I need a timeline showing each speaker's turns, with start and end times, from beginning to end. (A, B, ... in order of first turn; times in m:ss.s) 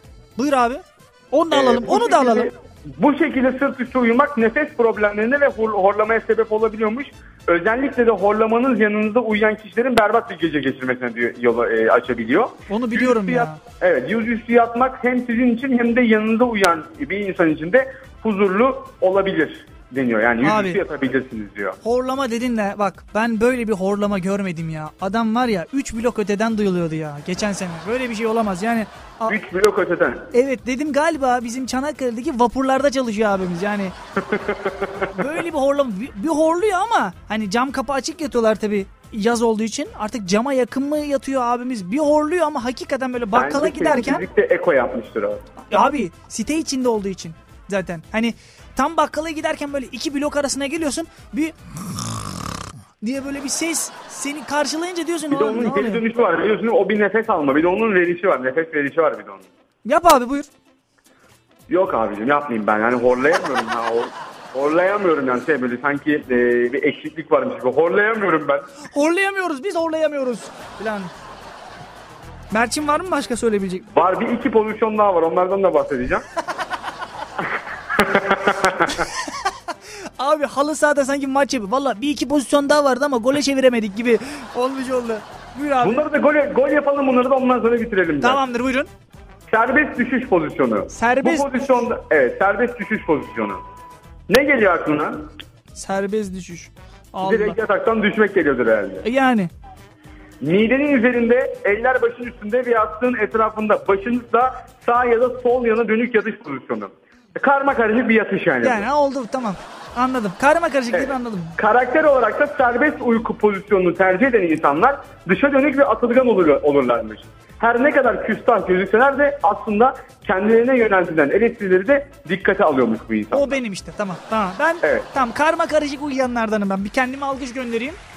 0:00.4-0:02.5 A
0:01.5-0:21.8 B
0:12.7-0:13.6 A
0:20.4-0:20.8 A
0:21.8-0:29.4 A
0:29.3-0:30.3 B
0:30.3-0:33.9 A
0:34.2-0:35.1 B
0:35.1-0:44.2 A
0:43.3-0:45.6 B
0:45.7-0:51.5 A
0:53.0-0:56.0 A
0:55.3-0:59.4 B
0:59.8-1:00.5 A
1:01.7-1:08.7 B
1:08.9-1:11.1 A
1:12.5-1:13.9 A
1:13.9-1:16.2 B
1:17.9-1:19.1 B
1:20.2-1:26.0 A
1:25.8-1:28.4 B
1:28.2-1:28.9 A
1:29.5-1:33.6 B
1:30.9-1:31.5 A
1:34.3-1:35.3 B
1:35.7-1:37.6 A
1:37.2-1:39.0 B
1:39.0-1:39.5 A
1:40.4-1:48.9 B
1:48.6-1:51.6 A
1:50.9-2:03.6 B
2:03.3-2:08.0 A
2:04.8-2:05.1 B